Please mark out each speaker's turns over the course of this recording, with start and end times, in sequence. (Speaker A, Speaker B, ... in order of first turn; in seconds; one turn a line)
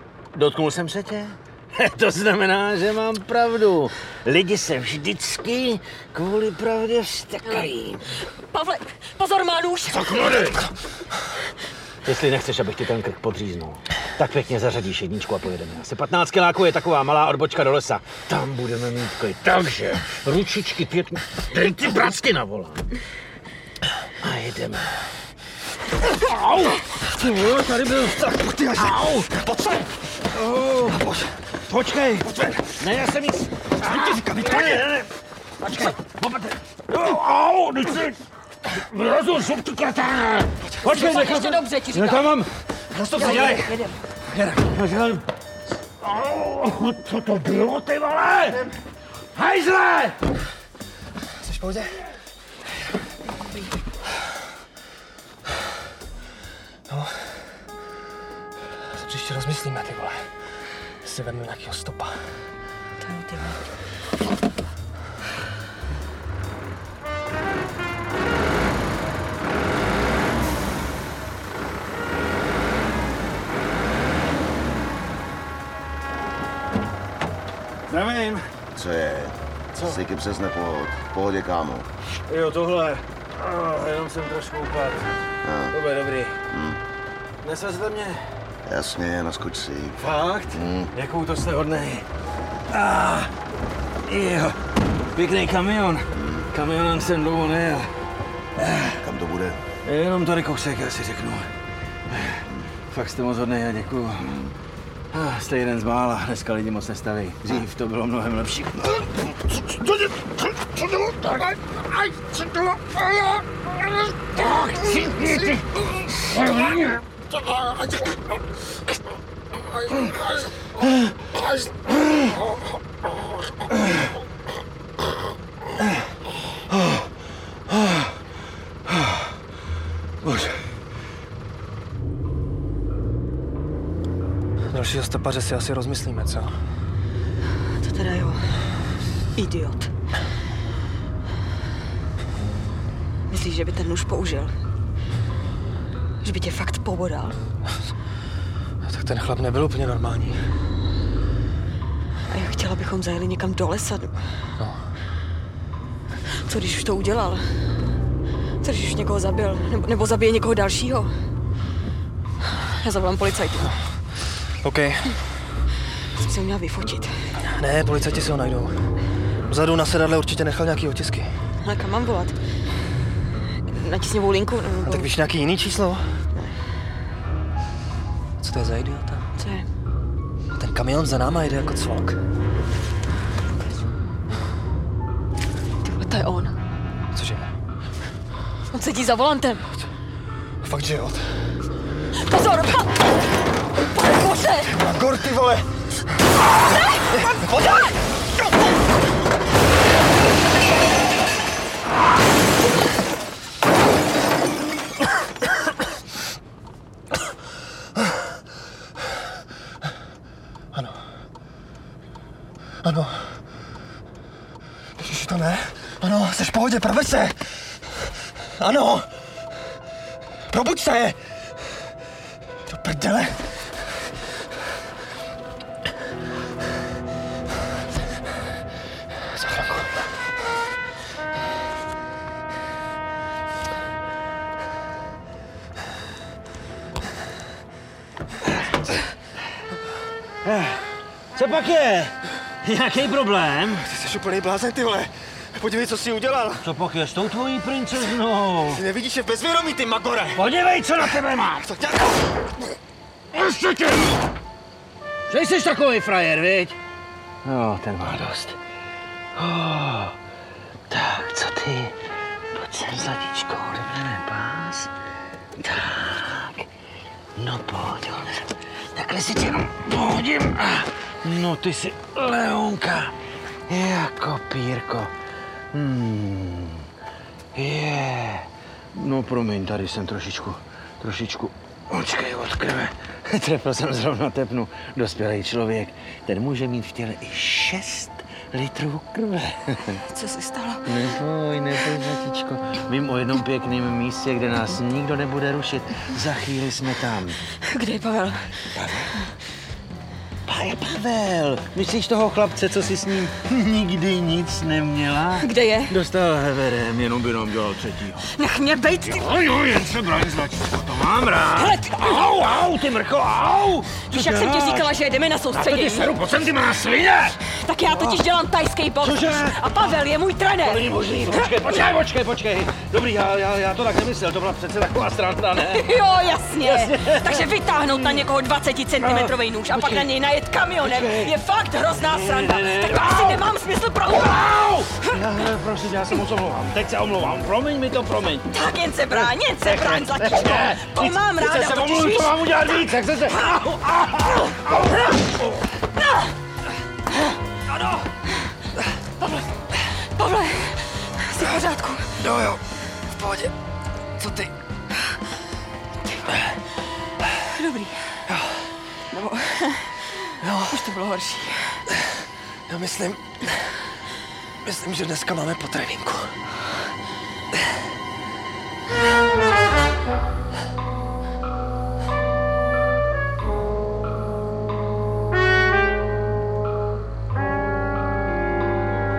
Speaker A: 0.3-8.2
Speaker B: 8.5-10.2
Speaker A: 10.0-10.6
Speaker A: 12.0-22.9
Speaker A: 24.2-25.0
Speaker A: 26.1-29.4
Speaker C: 28.2-29.9
Speaker A: 30.3-31.1
Speaker C: 30.9-31.3
Speaker A: 31.7-35.1
Speaker C: 33.8-34.9
Speaker A: 35.6-38.2
Speaker A: 38.7-42.5
Speaker B: 40.9-42.2
Speaker C: 42.9-43.8
Speaker A: 43.2-43.7
Speaker B: 43.2-44.0
Speaker A: 44.3-45.2
Speaker A: 46.0-48.7
Speaker A: 49.3-50.2
Speaker C: 51.4-52.0
Speaker C: 56.9-57.5
Speaker C: 58.8-60.4
Speaker C: 61.0-62.3
Speaker B: 63.1-63.5
Speaker A: 77.9-78.5
Speaker D: 78.8-81.9
Speaker A: 79.7-80.0
Speaker A: 82.3-85.1
Speaker D: 85.4-85.7
Speaker A: 85.7-86.4
Speaker D: 86.5-86.8
Speaker A: 87.4-88.2
Speaker D: 88.7-90.0
Speaker A: 90.0-92.0
Speaker D: 90.5-90.9
Speaker A: 92.7-93.3
Speaker A: 94.0-94.6
Speaker A: 95.1-97.9
Speaker A: 98.6-99.0
Speaker D: 99.0-99.6
Speaker A: 99.8-101.5
Speaker A: 102.1-104.5
Speaker A: 105.1-113.4
Speaker A: 114.0-117.0
Speaker C: 134.7-136.5
Speaker B: 137.7-138.7
Speaker B: 139.3-139.9
Speaker B: 143.3-144.5
Speaker B: 146.2-147.4
Speaker C: 148.8-150.4
Speaker B: 152.3-154.2
Speaker B: 156.2-157.6
Speaker B: 158.6-161.2
Speaker B: 162.5-163.8
Speaker C: 164.6-165.2
Speaker B: 166.2-167.3
Speaker C: 167.4-168.9
Speaker C: 169.5-171.3
Speaker B: 171.6-172.4
Speaker B: 173.7-175.0
Speaker C: 174.8-176.2
Speaker C: 178.4-179.2
Speaker B: 179.4-179.7
Speaker C: 180.5-182.2
Speaker B: 185.8-186.5
Speaker C: 187.1-187.5
Speaker B: 188.7-189.7
Speaker C: 190.6-191.5
Speaker B: 192.2-193.1
Speaker B: 193.9-194.6
Speaker C: 194.7-195.7
Speaker C: 197.1-197.9
Speaker C: 210.7-211.0
Speaker C: 212.8-213.4
Speaker C: 215.0-219.2
Speaker C: 220.5-221.2
Speaker C: 222.7-223.5
Speaker C: 229.3-230.1
Speaker A: 240.4-240.8
Speaker A: 241.3-243.8
Speaker C: 243.7-246.7
Speaker A: 246.6-248.8
Speaker C: 248.7-250.4
Speaker A: 250.3-251.7
Speaker C: 251.6-252.2
Speaker A: 253.3-254.2
Speaker A: 255.3-256.8
Speaker A: 257.4-258.6
Speaker A: 259.4-260.1
Speaker A: 260.9-261.9
Speaker A: 262.5-264.9
Speaker A: 265.6-266.7
Speaker A: 267.4-273.1
Speaker A: 273.7-275.1
Speaker A: 275.7-276.9
Speaker A: 277.5-290.0
Speaker B: 290.0-290.9
Speaker A: 290.9-297.4
Speaker B: 297.6-298.6
Speaker A: 298.7-299.3
Speaker A: 300.4-308.2
Speaker B: 305.4-305.9
Speaker B: 308.3-309.3
Speaker A: 309.0-315.0
Speaker B: 311.6-312.1
Speaker B: 314.1-316.1
Speaker A: 315.5-318.2
Speaker B: 317.5-321.8
Speaker A: 319.0-320.0
Speaker A: 320.6-325.9
Speaker B: 325.6-335.2
Speaker A: 326.6-328.2
Speaker A: 329.0-330.1
Speaker A: 330.8-331.4
Speaker A: 331.9-333.5
Speaker A: 334.1-338.5
Speaker B: 338.5-342.3
Speaker A: 339.1-345.4
Speaker B: 350.0-352.1
Speaker C: 352.2-352.6
Speaker C: 353.1-353.5
Speaker C: 354.2-354.5
Speaker B: 357.5-358.1
Speaker C: 358.3-358.7
Speaker B: 359.1-360.0
Speaker C: 360.4-360.9
Speaker B: 360.8-361.8
Speaker C: 362.7-363.7
Speaker C: 364.6-366.4